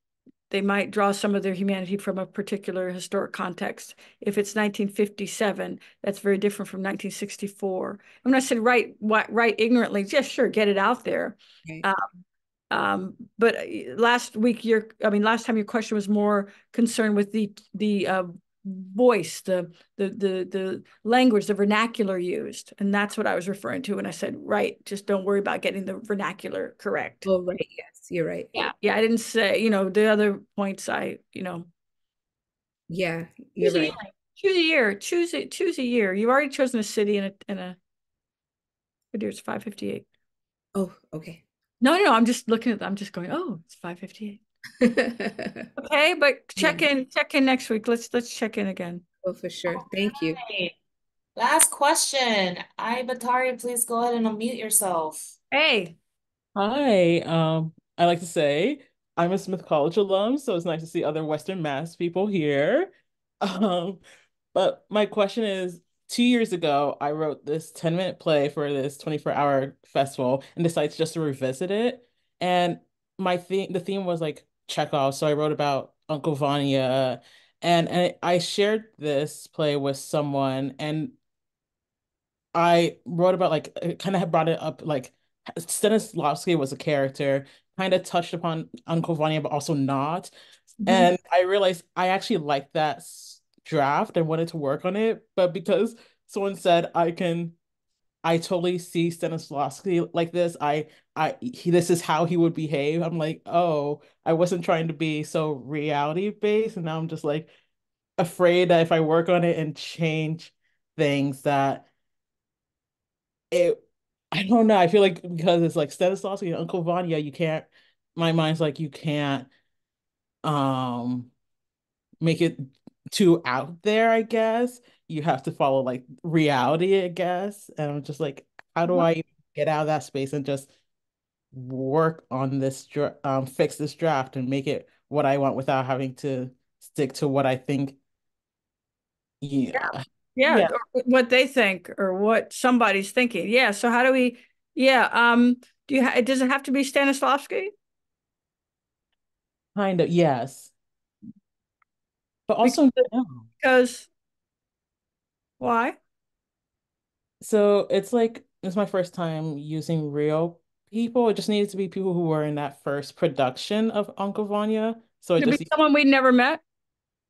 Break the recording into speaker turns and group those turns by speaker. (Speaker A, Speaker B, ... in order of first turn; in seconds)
Speaker A: 0.5-12.1, 12.7-27.3, 28.5-31.7, 33.6-37.8, 39.1-40.0, 41.8-44.4, 45.8-49.0, 55.5-56.0, 90.8-91.1, 139.7-147.7, 152.6-153.1, 153.6-154.1, 155.6-156.0, 165.4-166.6
Speaker B: 27.2-28.5, 32.9-34.0, 40.7-41.4, 44.8-45.7, 46.6-46.8, 49.2-50.4
Speaker C: 49.7-50.7, 51.4-55.3
Speaker D: 56.5-62.9, 63.4-64.0, 64.5-81.2, 82.5-97.5, 98.2-107.5, 108.2-111.9, 113.5-119.5, 120.5-121.3, 122.2-130.7, 131.5-138.0, 139.4-140.7, 149.7-150.7, 152.5-153.4, 157.4-165.7